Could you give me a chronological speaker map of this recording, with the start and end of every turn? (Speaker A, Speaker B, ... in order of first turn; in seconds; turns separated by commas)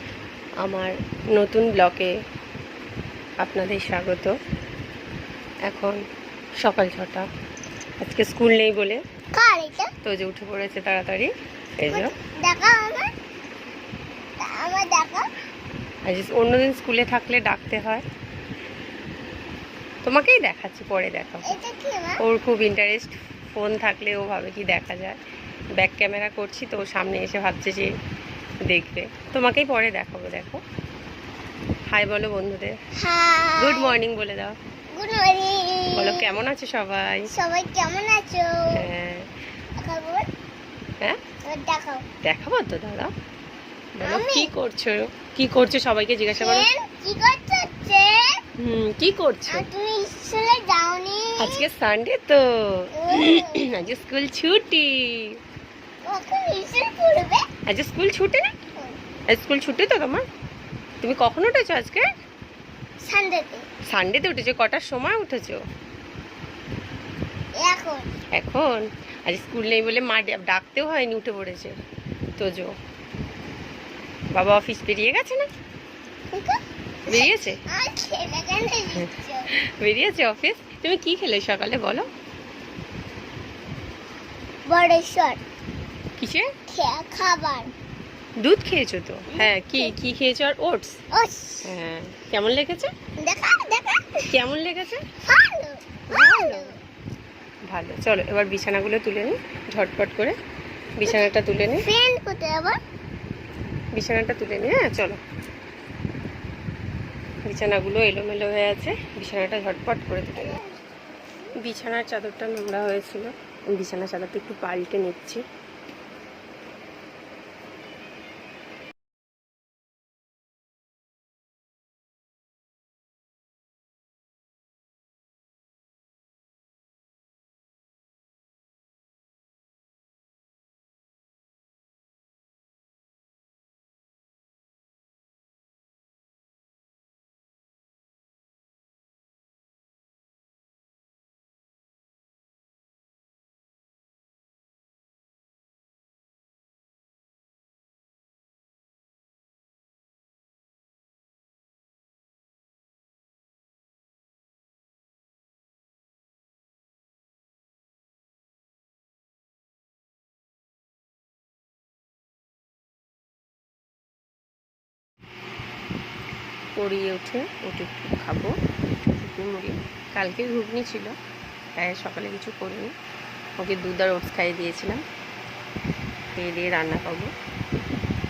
Speaker A: 0.6-2.1, Speaker A: 3.4-4.4, Speaker A: 5.7-6.0, Speaker A: 6.6-7.3, Speaker A: 8.0-9.0, Speaker B: 9.3-9.9, Speaker A: 10.0-12.1, Speaker B: 11.9-13.1, Speaker B: 14.4-15.3, Speaker A: 16.1-18.1, Speaker A: 20.0-21.6, Speaker B: 21.4-22.2, Speaker A: 22.2-25.2, Speaker A: 25.8-27.9, Speaker A: 28.6-30.6, Speaker A: 31.9-32.8, Speaker B: 33.0-33.9, Speaker A: 33.6-34.6, Speaker B: 34.9-36.3, Speaker A: 35.9-37.3, Speaker B: 37.3-38.8, Speaker A: 38.7-39.3, Speaker B: 39.8-40.3, Speaker B: 41.4-42.0, Speaker A: 42.2-43.1, Speaker A: 44.0-46.7, Speaker B: 44.0-44.5, Speaker B: 46.3-48.4, Speaker A: 48.6-49.7, Speaker B: 49.5-51.6, Speaker A: 51.4-55.4, Speaker B: 53.0-53.7, Speaker B: 56.0-57.5, Speaker A: 57.7-58.5, Speaker A: 59.3-60.2, Speaker A: 61.0-62.1, Speaker B: 63.0-63.7, Speaker A: 63.9-65.6, Speaker B: 67.6-68.1, Speaker A: 68.3-71.8, Speaker A: 72.4-72.7, Speaker A: 74.3-75.5, Speaker B: 76.3-79.5, Speaker A: 77.1-77.6, Speaker A: 79.0-82.1, Speaker B: 84.7-85.4, Speaker A: 86.2-86.5, Speaker B: 86.7-87.7, Speaker A: 88.4-91.0, Speaker B: 89.3-89.9, Speaker B: 91.1-91.7, Speaker A: 91.7-92.9, Speaker B: 93.2-94.3, Speaker A: 94.3-95.1, Speaker B: 95.2-96.8, Speaker A: 96.1-96.8, Speaker A: 97.7-100.4, Speaker A: 101.0-101.9, Speaker B: 101.8-102.8, Speaker A: 104.0-105.2, Speaker A: 107.5-110.6, Speaker B: 110.4-110.7, Speaker A: 111.6-115.4, Speaker A: 166.8-168.5, Speaker A: 169.1-171.2, Speaker A: 171.8-172.9, Speaker A: 173.6-175.0, Speaker A: 176.4-177.3